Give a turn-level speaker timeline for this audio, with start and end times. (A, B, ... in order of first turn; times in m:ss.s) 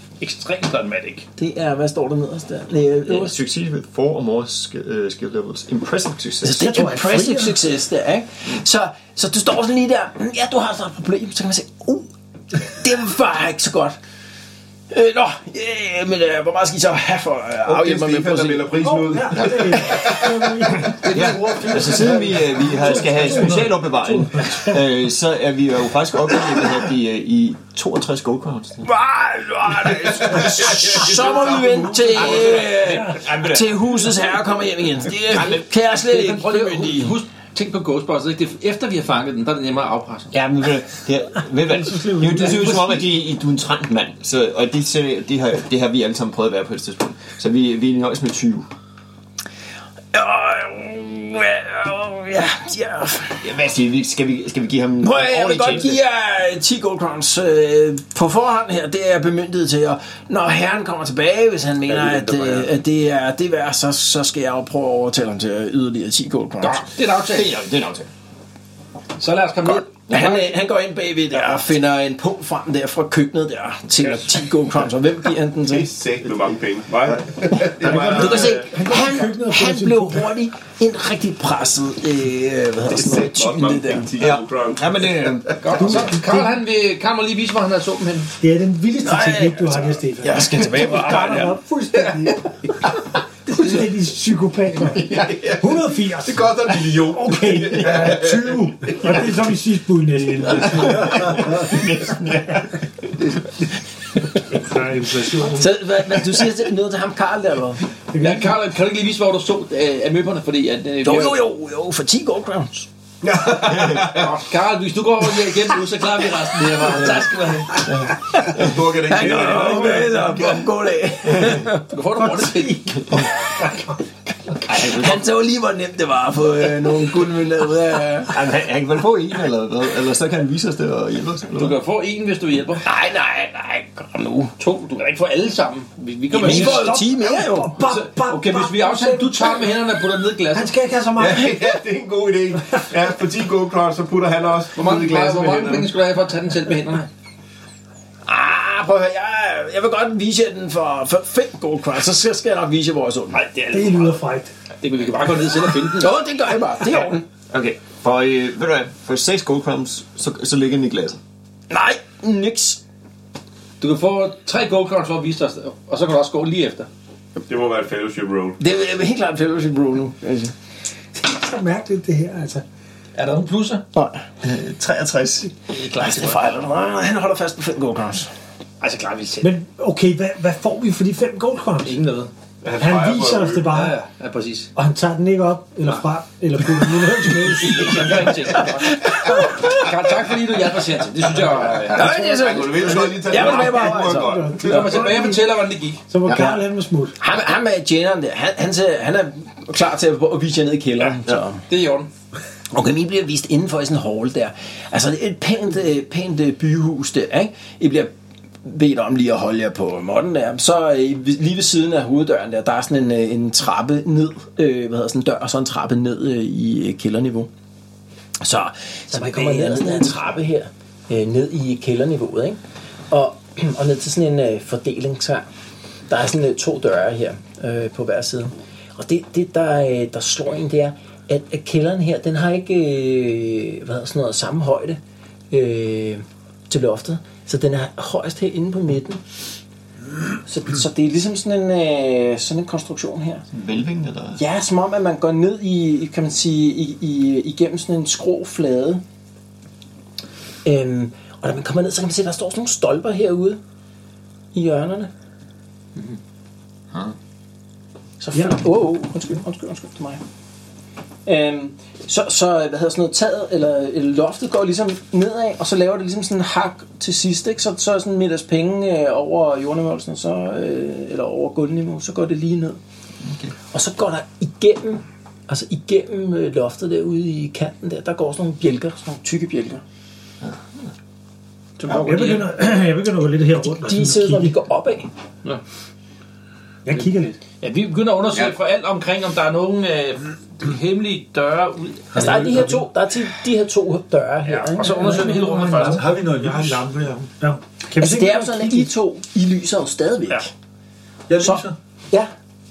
0:00.2-0:01.3 A
0:01.4-0:03.4 B
0:03.0-0:06.7 C
0:06.4-0:14.0 B
0:06.6-0:07.6 D
0:14.9-0:18.7 B
0:17.6-0:20.7 E
0:18.8-0:24.8 D
0:19.3-0:28.9 C
0:21.9-0:22.5 F
0:28.9-0:37.2 B
0:30.3-0:31.6 E
0:30.3-0:34.1 C
0:31.1-0:32.6 A
0:35.3-0:35.6 C
0:35.9-0:40.3 A
0:40.3-0:48.7 C
0:41.6-0:43.0 D
0:50.1-0:53.4 B
0:53.4-0:56.0 C
0:55.0-1:06.8 B
1:01.9-1:02.7 F
1:06.6-1:07.6 A
1:07.2-1:08.1 C
1:09.2-1:10.6 A
1:10.1-1:15.9 B
1:11.3-1:11.6 A
1:15.6-1:18.8 E
1:17.8-1:20.4 D
1:17.8-1:24.1 B
1:22.8-1:25.9 E
1:24.2-1:26.1 C
1:25.6-1:28.3 A
1:25.8-1:26.5 D
1:28.4-1:32.6 D
1:29.0-1:31.5 B
1:30.3-1:31.1 C
1:33.5-1:41.5 D
1:35.1-1:39.4 E
1:40.5-1:42.8 C
1:44.5-1:45.8 G
1:45.4-1:47.8 B
1:48.1-1:48.5 D
1:48.2-1:51.4 A
1:51.0-1:52.9 B
1:53.2-1:54.3 E
1:53.5-1:54.0 C
1:54.0-1:57.9 A
1:56.8-1:57.2 C
1:57.8-1:58.7 C
1:58.3-2:01.8 B
1:58.4-2:00.6 E
2:01.7-2:03.2 A
2:02.1-2:03.3 D
2:04.6-2:05.2 C
2:04.8-2:08.3 B
2:08.3-2:11.8 C
2:11.5-2:12.8 A
2:12.8-2:14.5 B
2:14.6-2:17.0 A
2:16.3-2:17.8 B
2:16.3-2:19.7 D
2:17.8-2:20.7 A
2:20.5-2:21.7 D
2:21.1-2:25.9 E
2:24.7-2:27.1 A
2:28.2-2:33.4 B
2:33.3-2:34.2 A
2:33.7-2:34.5 D
2:34.8-2:36.2 A
2:35.9-2:37.2 B
2:37.5-2:41.2 C
2:41.7-2:42.8 B
2:43.8-2:46.9 A
2:47.5-2:48.6 E
2:48.6-2:50.5 B
2:51.1-2:52.6 D
2:53.1-2:53.8 A
2:53.9-2:54.2 B
2:54.4-2:55.5 C
2:55.7-2:56.4 A
2:55.9-2:58.3 B
2:58.8-2:59.5 A
2:59.4-3:02.1 D
3:01.8-3:02.3 A
3:02.6-3:03.7 E
3:02.8-3:04.0 D
3:03.6-3:04.7 A
3:04.7-3:08.6 D
3:07.6-3:13.6 A
3:08.8-3:09.8 B
3:09.2-3:09.6 D
3:11.6-3:15.0 E
3:11.9-3:14.8 B
3:13.6-3:17.2 D
3:14.6-3:16.0 A
3:16.3-3:16.6 B
3:17.2-3:21.6 B
3:21.7-3:22.1 A
3:22.7-3:28.1 B
3:28.6-3:37.5 B
3:38.4-3:42.6 B
3:39.1-3:40.3 D
3:43.1-3:45.5 B
3:46.1-3:55.0 B
3:55.5-3:59.2 B
4:00.4-4:03.4 B
4:03.5-4:04.4 C
4:04.4-4:09.0 B
4:10.6-4:13.6 B
4:14.5-4:15.1 B
4:18.2-4:20.2 B
4:21.2-4:32.8 B
4:33.2-4:33.5 C
4:33.7-4:39.8 B
4:41.8-4:42.5 A
4:41.9-4:44.6 D
4:43.6-4:45.1 B
4:46.8-4:47.4 D
4:47.6-4:52.5 A
4:52.1-4:52.8 F
4:52.1-4:54.9 B
4:54.4-4:56.0 A
4:54.8-4:55.9 D
4:55.1-4:57.3 G
4:55.8-4:56.8 F
4:57.4-4:58.9 D
4:58.0-5:00.5 B
5:01.3-5:01.8 F
5:01.4-5:02.3 B